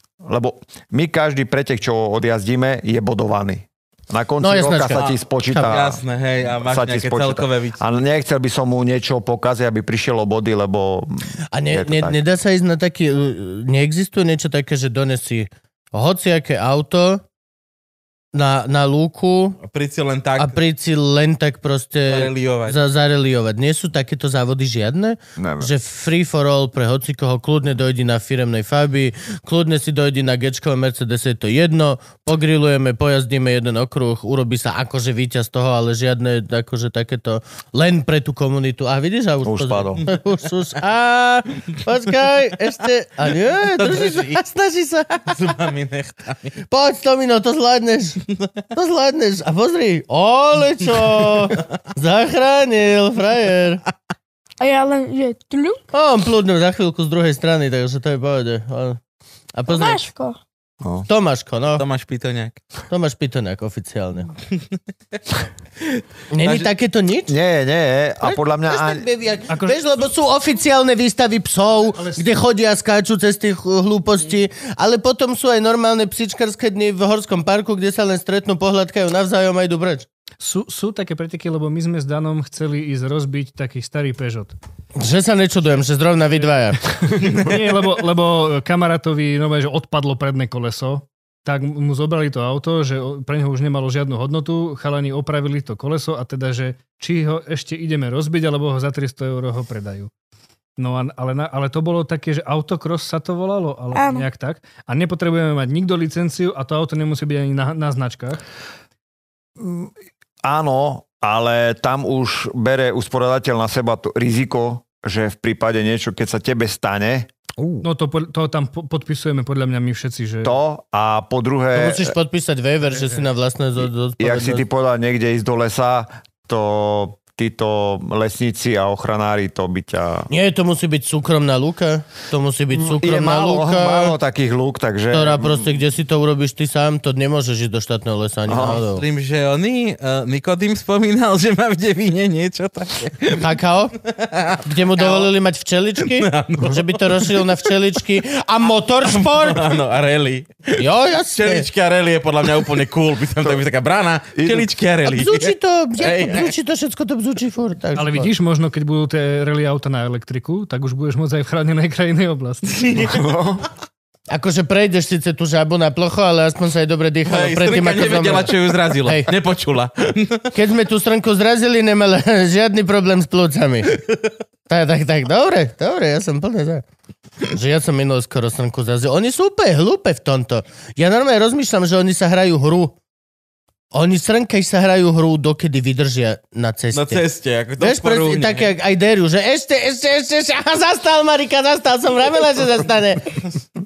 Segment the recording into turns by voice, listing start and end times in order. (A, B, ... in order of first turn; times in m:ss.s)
0:00.2-0:06.0 A
0:04.4-0:05.6 B
0:05.0-0:07.8 C
0:06.6-0:12.2 A
0:11.5-0:17.2 B
0:18.3-0:19.6 B
0:19.6-0:20.6 C
0:20.4-0:45.4 B
0:22.1-0:22.8 C
0:25.4-0:25.7 A
0:39.4-0:40.0 A
0:43.8-0:44.4 C
0:45.3-0:46.6 C
0:46.7-0:48.2 B
0:48.7-0:53.8 B
0:54.6-0:55.8 D
0:55.9-0:59.0 B
0:59.5-1:00.0 B
0:59.7-1:00.4 D
1:00.8-1:01.1 A
1:01.1-1:01.8 B
1:01.8-1:02.6 C
1:02.9-1:04.3 B
1:05.8-1:06.7 C
1:06.3-1:07.3 B
1:07.3-1:09.0 A
1:08.2-1:20.1 B
1:09.5-1:09.8 E
1:11.8-1:12.3 E
1:20.4-1:24.5 E
1:25.0-1:26.8 B
1:27.1-1:40.1 E
1:40.8-1:48.4 E
1:43.9-1:44.3 D
1:49.6-1:49.9 A
1:50.4-1:57.7 A
1:57.8-2:00.5 E
2:00.4-2:02.1 A
2:01.7-2:04.6 B
2:04.2-2:10.3 A
2:10.3-2:14.1 B
2:12.7-2:15.7 A
2:15.1-2:19.0 B
2:18.5-2:18.8 A
2:18.8-2:23.5 C
2:23.4-2:24.0 B
2:24.0-2:25.3 C
2:24.6-2:29.6 B
2:26.0-2:27.5 C
2:29.1-2:36.5 C
2:30.8-2:31.7 B
2:34.4-2:34.7 A
2:35.0-2:38.3 B
2:38.0-2:43.0 E
2:42.8-2:43.1 C
2:43.0-2:43.7 A
2:44.3-2:49.3 B
2:47.3-2:50.5 C
2:50.5-2:54.0 B
2:54.7-2:56.8 B
2:57.5-3:03.0 B
3:03.9-3:07.2 B
3:06.9-3:08.7 C
3:07.8-3:13.4 B